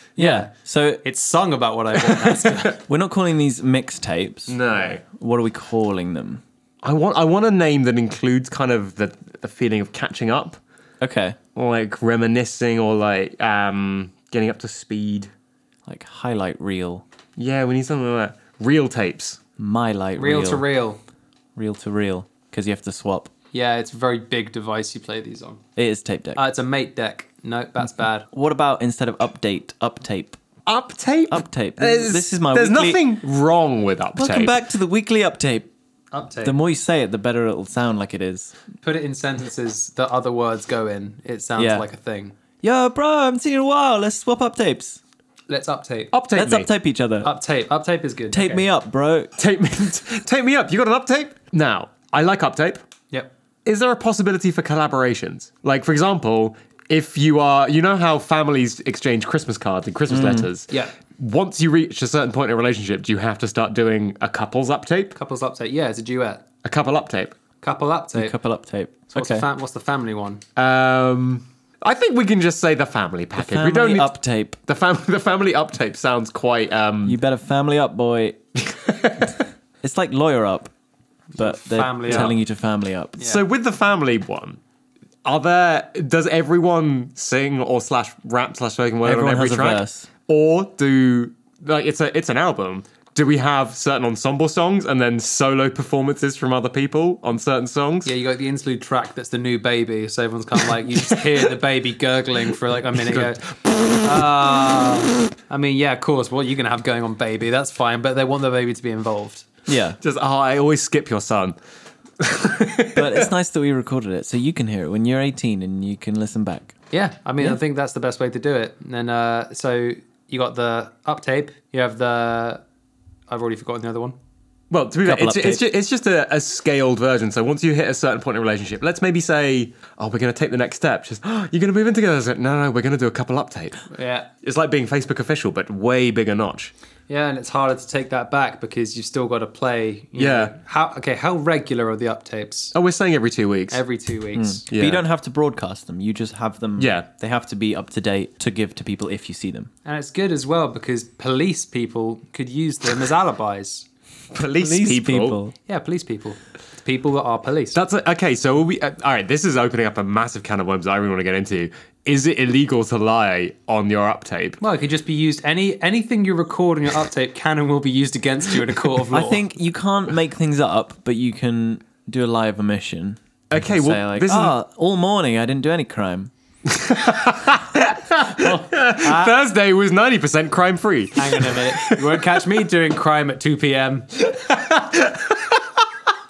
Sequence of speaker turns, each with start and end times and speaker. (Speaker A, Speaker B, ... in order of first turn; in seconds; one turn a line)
Speaker A: 0.2-0.5
Speaker B: 0.2-1.0
Speaker A: 1.0-2.8
Speaker B: 2.8-6.4
Speaker C: 4.5-5.0
Speaker C: 6.8-10.6
Speaker B: 11.0-11.4
Speaker C: 11.6-15.3
Speaker B: 15.8-17.0
Speaker C: 17.4-19.4
Speaker B: 19.6-20.6
Speaker A: 20.2-21.0
Speaker B: 21.6-23.3
Speaker A: 23.5-25.6
Speaker B: 25.8-26.4
Speaker A: 26.4-28.3
Speaker B: 28.3-30.4
Speaker C: 30.7-34.5
Speaker B: 31.3-33.0
Speaker B: 34.2-35.7
Speaker A: 36.1-36.5
Speaker B: 36.4-38.5
Speaker A: 38.8-42.4
Speaker B: 41.5-41.8
Speaker B: 42.6-45.0
Speaker A: 45.5-46.1
Speaker C: 46.1-46.7
Speaker B: 46.3-47.3
Speaker A: 47.2-48.6
Speaker B: 48.3-49.3
Speaker C: 49.4-52.8
Speaker C: 53.6-65.2
Speaker B: 60.1-60.5
Speaker A: 65.1-66.4
Speaker C: 66.6-67.3
Speaker A: 67.6-68.3
Speaker B: 68.1-69.5
Speaker A: 69.1-70.4
Speaker C: 70.5-74.1
Speaker B: 73.4-74.6
Speaker C: 74.7-77.2
Speaker B: 77.0-78.4
Speaker C: 78.6-79.4
Speaker B: 79.8-80.7
Speaker A: 81.3-82.3
Speaker B: 81.4-83.2
Speaker C: 83.2-84.6
Speaker C: 85.2-98.1
Speaker B: 89.0-90.1
Speaker A: 98.0-109.5
Speaker C: 103.0-104.2
Speaker B: 109.7-110.0
Speaker C: 110.0-111.5
Speaker C: 112.2-113.3
Speaker B: 112.9-116.7
Speaker A: 116.9-122.6
Speaker A: 123.3-124.2
Speaker C: 124.7-133.9
Speaker B: 125.0-125.6
Speaker A: 133.9-134.3
Speaker C: 134.4-136.7
Speaker A: 137.1-142.7
Speaker C: 140.2-140.5
Speaker C: 142.7-143.8
Speaker A: 143.7-144.7
Speaker B: 144.3-149.7
Speaker C: 144.7-145.0
Speaker C: 146.8-147.1
Speaker A: 149.8-153.9
Speaker C: 154.3-155.4
Speaker B: 154.6-155.5
Speaker A: 155.7-157.8
Speaker C: 157.7-164.6
Speaker A: 164.6-169.4
Speaker B: 169.1-176.3
Speaker C: 173.5-174.5
Speaker C: 176.7-182.3
Speaker A: 178.2-179.3
Speaker A: 181.2-184.2
Speaker C: 184.4-185.6